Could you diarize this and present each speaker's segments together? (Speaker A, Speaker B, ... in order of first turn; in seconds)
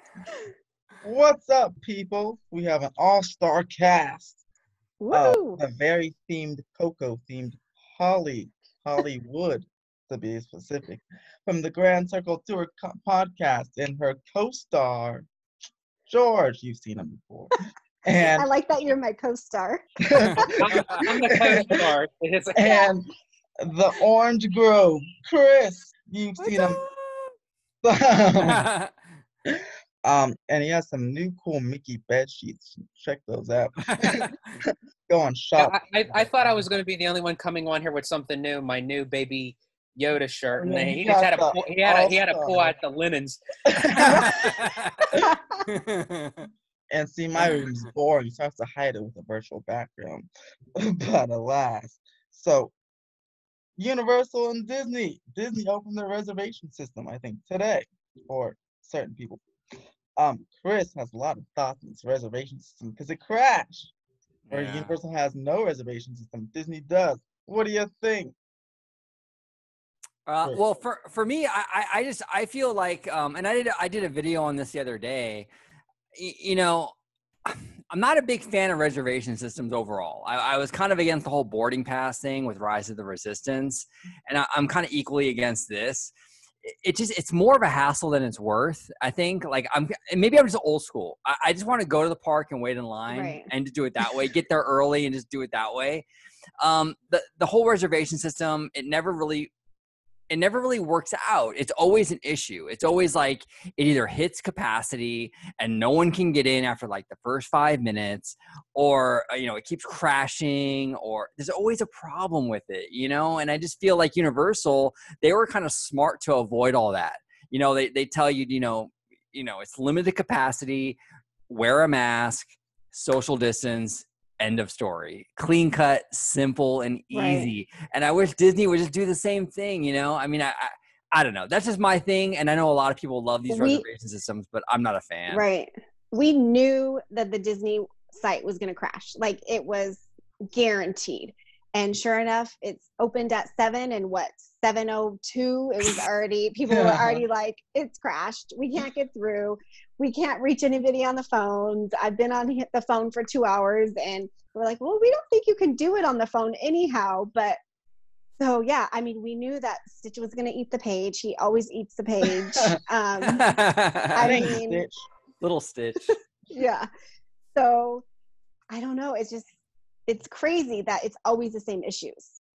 Speaker A: 1.0-4.4, 5.1-15.3, 16.1-17.5, 18.0-18.4, 20.0-21.9, 22.5-23.1, 23.6-26.8, 27.8-28.6, 29.4-35.8, 40.6-42.7, 43.6-44.5, 46.9-52.7, 53.8-59.4, 60.1-63.9, 64.5-68.3, 146.7-147.2, 164.2-165.0
Speaker B: 5.0-5.6, 18.2-19.8, 26.4-27.0, 45.3-45.6, 93.1-93.5, 127.1-127.5, 133.5-133.8, 135.3-157.6, 158.4-163.5, 164.1-164.8, 166.5-166.9, 167.5-168.0, 168.7-169.5, 170.1-172.4
Speaker C: 20.1-21.0, 28.4-29.0, 33.8-34.5, 43.9-46.5, 64.5-64.9, 70.2-75.5, 76.1-86.1, 86.6-96.0, 96.6-99.5, 100.3-121.0, 121.5-135.4, 163.2-164.5, 165.4-166.2
Speaker D: 20.6-22.8, 35.6-43.4